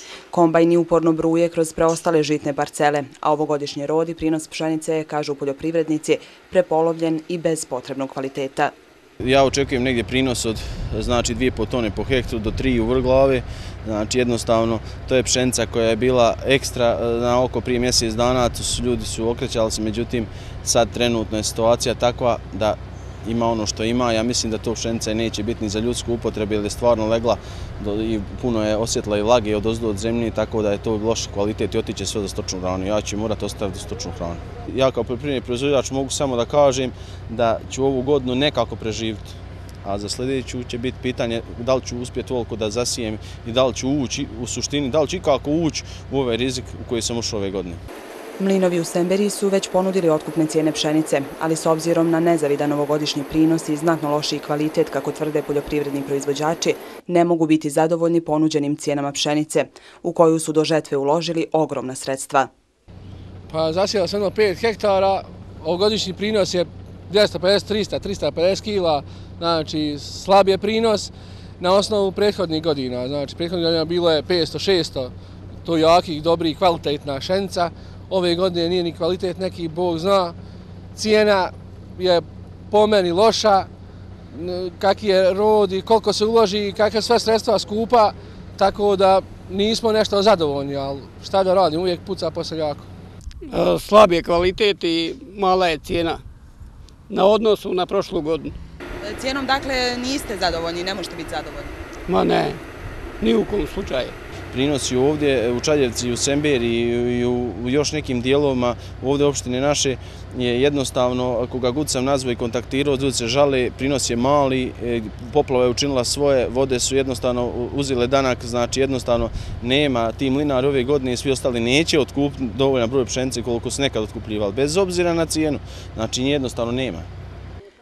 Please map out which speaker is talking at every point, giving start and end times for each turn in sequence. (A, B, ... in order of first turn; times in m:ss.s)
0:00.3-0:08.7 A
0:09.2-0:47.8 B
0:48.4-1:02.5 A
1:03.5-1:15.1 C
1:15.6-1:20.4 C
1:21.0-1:23.7 C
1:24.3-1:32.9 C
1:33.5-1:36.2 D
1:37.1-1:38.6 D
1:39.0-1:41.7 A
1:42.1-1:42.6 D
1:43.2-1:44.2 D
1:44.5-2:07.1 B